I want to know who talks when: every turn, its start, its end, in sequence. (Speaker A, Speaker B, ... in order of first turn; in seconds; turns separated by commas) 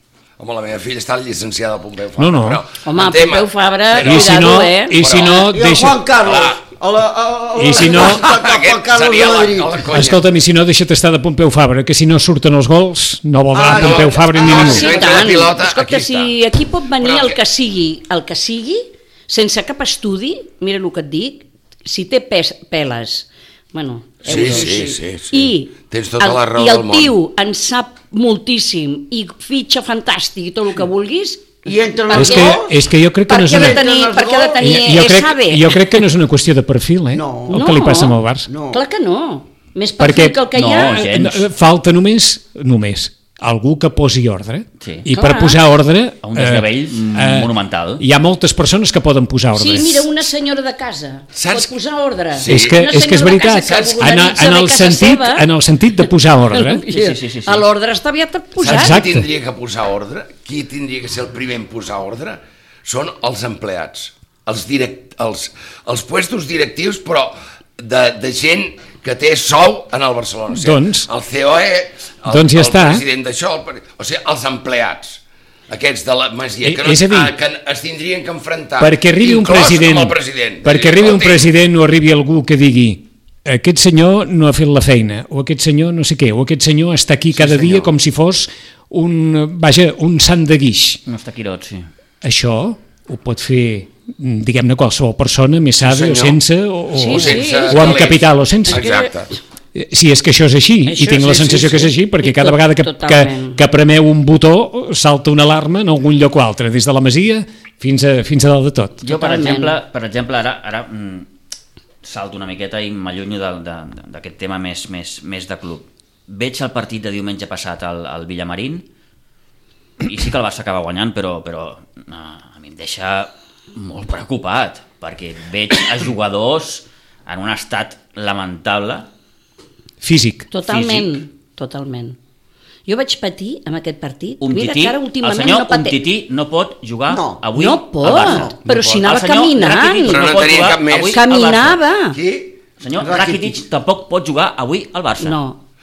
Speaker A: 0.4-5.5, Speaker B: 2.2-2.6, Speaker C: 2.8-5.0, Speaker B: 4.0-6.0, Speaker D: 5.3-9.8, Speaker A: 6.2-6.6, Speaker B: 7.5-8.2, Speaker A: 7.7-10.2, Speaker B: 9.9-15.1, Speaker D: 13.5-14.7, Speaker A: 13.6-16.3, Speaker C: 14.3-32.7, Speaker A: 17.0-17.4, Speaker A: 24.2-27.1, Speaker D: 31.6-32.7, Speaker B: 32.1-33.8, Speaker C: 33.3-35.9, Speaker D: 33.3-34.9, Speaker B: 34.6-38.5, Speaker D: 37.1-37.6, Speaker C: 37.5-38.2, Speaker D: 38.5-38.8, Speaker C: 38.7-41.1, Speaker B: 40.0-40.4, Speaker E: 40.5-41.5, Speaker B: 41.0-50.1, Speaker E: 44.8-45.1, Speaker C: 45.1-45.6, Speaker E: 46.2-48.0, Speaker C: 49.5-55.5, Speaker A: 51.3-51.7, Speaker A: 52.3-52.8, Speaker B: 52.5-56.8, Speaker A: 53.6-54.2, Speaker C: 56.5-59.0, Speaker E: 56.9-57.6, Speaker A: 58.6-81.5, Speaker B: 58.6-59.3, Speaker B: 70.5-71.1, Speaker B: 72.3-73.0, Speaker B: 76.6-77.3, Speaker B: 78.8-91.0, Speaker A: 87.3-87.9, Speaker E: 91.0-91.9, Speaker B: 92.2-98.9, Speaker A: 95.8-96.4, Speaker C: 96.9-98.0, Speaker A: 97.0-99.3, Speaker C: 98.7-99.1, Speaker B: 99.7-109.0, Speaker C: 100.8-103.6, Speaker A: 101.2-101.9, Speaker E: 109.0-111.3, Speaker C: 109.0-109.8, Speaker E: 112.0-118.8, Speaker E: 120.0-129.1, Speaker B: 130.0-130.5, Speaker C: 130.5-132.2, Speaker E: 130.7-131.2, Speaker C: 132.9-136.0, Speaker E: 134.4-138.5, Speaker D: 137.1-137.4, Speaker C: 137.6-140.2, Speaker D: 138.1-138.6, Speaker A: 138.6-139.1, Speaker E: 139.0-141.8, Speaker A: 140.0-142.5, Speaker C: 141.1-142.2, Speaker E: 142.8-145.4, Speaker D: 143.0-143.6, Speaker C: 145.2-145.6